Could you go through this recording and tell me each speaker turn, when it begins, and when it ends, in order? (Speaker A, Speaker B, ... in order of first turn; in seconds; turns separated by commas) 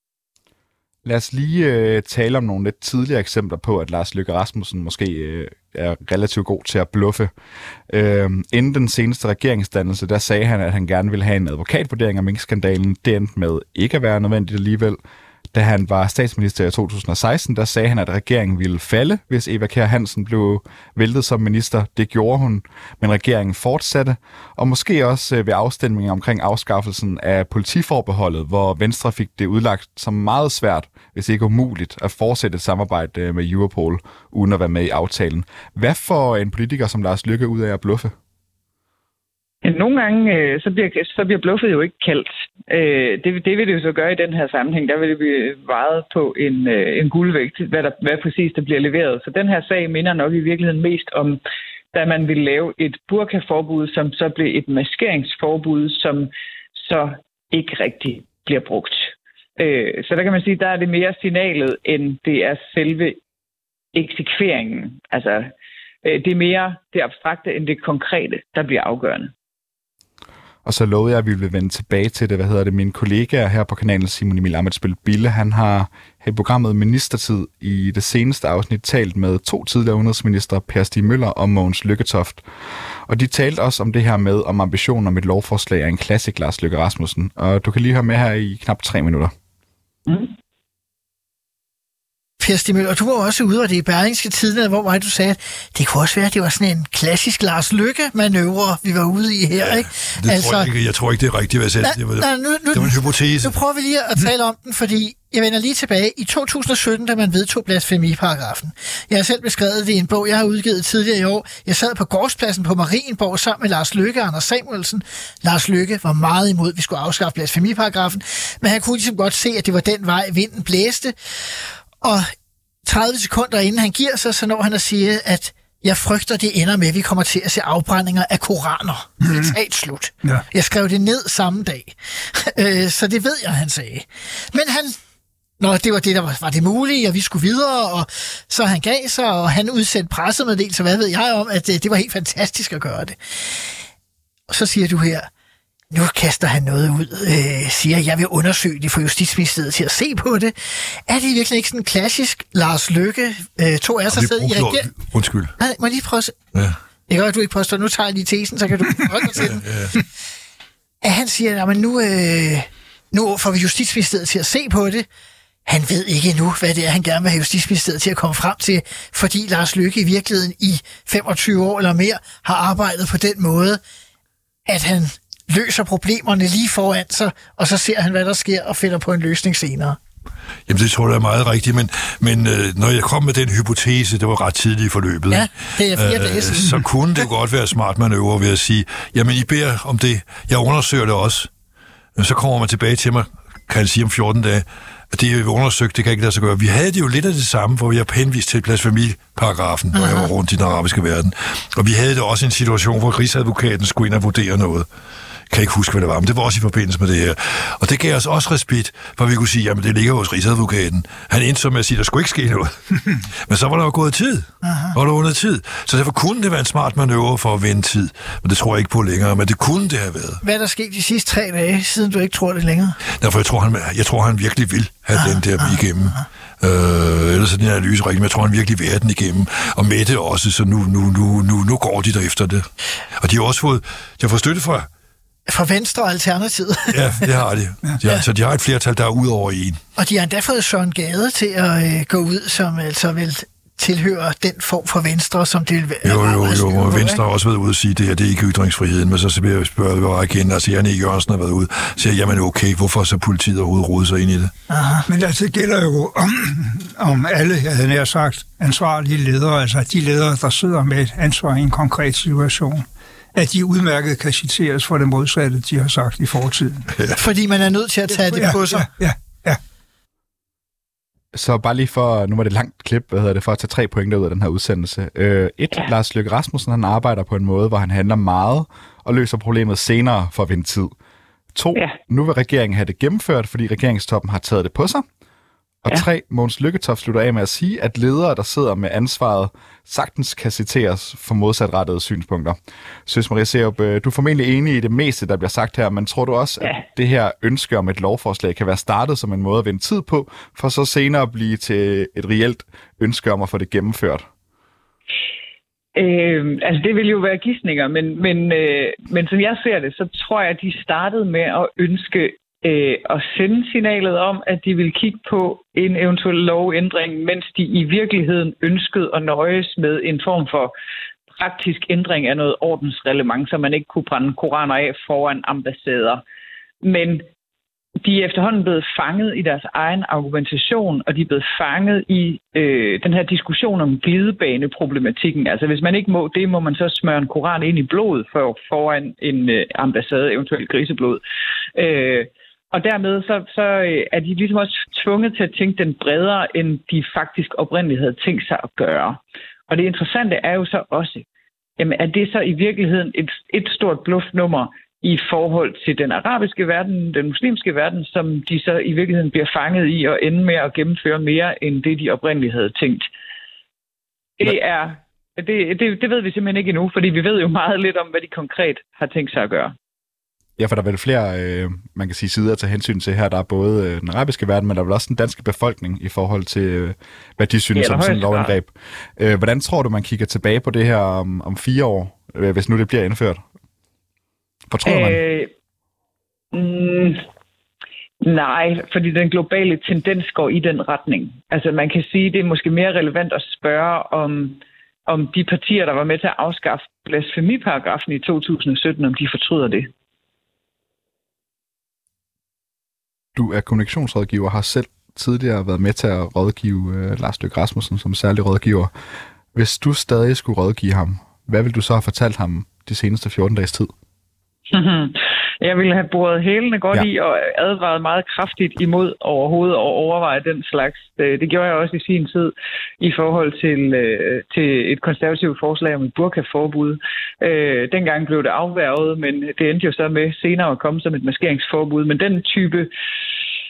Speaker A: 1.0-7.3, Speaker A: 7.9-15.0, Speaker A: 15.5-38.1, Speaker B: 39.6-51.4, Speaker B: 51.9-63.2, Speaker B: 63.9-65.5, Speaker B: 66.0-69.3, Speaker A: 70.6-82.4, Speaker A: 83.1-89.3, Speaker B: 90.1-90.3, Speaker C: 92.4-100.7, Speaker D: 99.6-103.5, Speaker C: 101.8-122.3, Speaker C: 122.8-134.9, Speaker E: 129.2-129.5, Speaker C: 135.6-143.7, Speaker C: 144.5-145.3, Speaker C: 145.9-154.9, Speaker D: 154.1-155.5, Speaker C: 155.6-156.3, Speaker C: 157.1-159.6, Speaker D: 159.3-160.0, Speaker C: 161.0-165.1, Speaker C: 165.7-173.8, Speaker C: 174.7-180.0, Speaker D: 180.7-191.5, Speaker C: 185.3-186.9, Speaker D: 192.2-204.9, Speaker C: 199.9-200.3, Speaker D: 205.5-220.4, Speaker C: 214.6-214.9, Speaker C: 220.4-223.0, Speaker D: 223.1-232.7, Speaker C: 225.2-225.7, Speaker D: 233.2-234.9, Speaker C: 235.5-237.3, Speaker D: 236.9-239.8, Speaker C: 240.0-247.2, Speaker D: 246.0-254.5, Speaker C: 254.7-255.0, Speaker E: 255.1-266.9, Speaker D: 266.9-267.2, Speaker C: 267.1-268.9, Speaker E: 268.2-269.6, Speaker A: 271.3-280.9, Speaker A: 281.5-285.0, Speaker A: 285.8-304.2, Speaker B: 305.9-320.7, Speaker B: 321.3-326.2, Speaker B: 326.8-327.2, Speaker B: 328.0-341.2, Speaker B: 341.7-351.3, Speaker B: 351.8-363.1, Speaker B: 364.4-369.7, Speaker A: 370.6-383.4, Speaker B: 377.7-378.6, Speaker A: 384.7-385.2, Speaker B: 384.8-385.5, Speaker B: 386.5-387.2, Speaker B: 388.2-399.9, Speaker A: 403.4-408.9, Speaker A: 409.5-413.9, Speaker B: 414.7-432.9